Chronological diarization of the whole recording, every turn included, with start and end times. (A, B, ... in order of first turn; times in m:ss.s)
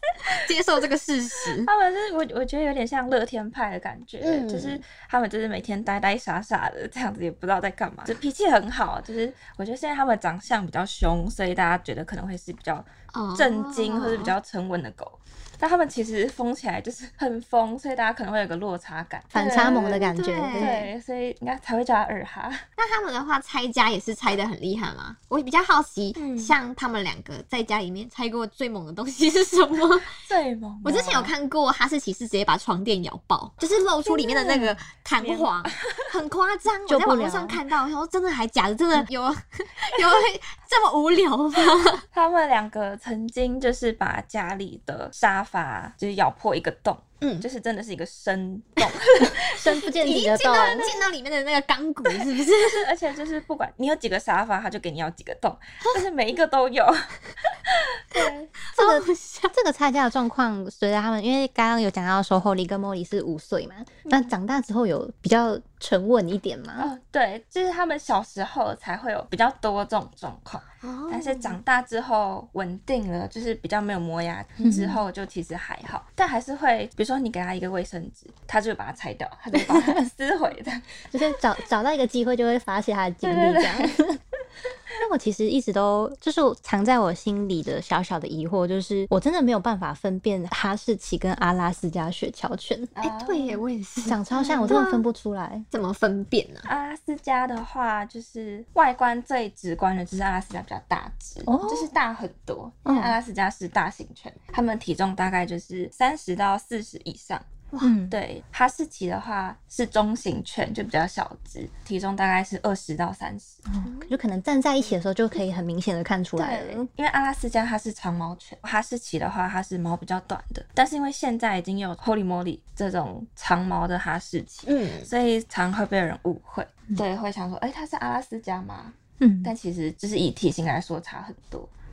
0:00.3-0:01.7 A
0:01.5-0:22.6 B
0:04.2-0:04.8 A
0:13.1-0:14.3 A
0:19.3-0:20.8 C
0:19.6-0:20.9 A
0:22.8-0:30.2 A
0:26.2-0:26.6 B
0:30.2-0:31.3 B
0:30.8-0:42.0 A
0:34.0-0:36.1 B
0:36.8-0:37.6 C
0:42.1-0:49.8 B
0:49.5-0:50.9 C
0:49.6-0:52.9 A
0:50.4-0:51.1 B
0:52.1-0:58.5 B
0:58.7-0:59.5 A
0:58.7-1:06.9 C
1:06.8-1:21.4 B
1:10.8-1:11.6 A
1:14.6-1:15.0 C
1:19.7-1:20.0 C
1:21.1-1:24.2 C
1:23.2-1:23.9 B
1:25.0-1:32.9 C
1:32.9-1:33.6 B
1:33.0-1:35.0 A
1:34.0-1:35.7 C
1:34.3-1:34.8 B
1:35.7-1:36.6 A
1:36.6-1:47.4 B
1:41.4-1:41.9 C
1:42.8-1:43.2 C
1:47.8-1:48.2 C
1:48.1-1:53.6 B
1:53.7-1:56.9 C
1:53.8-1:54.2 A
1:56.4-2:11.7 B
2:04.6-2:05.1 A
2:09.2-2:09.5 C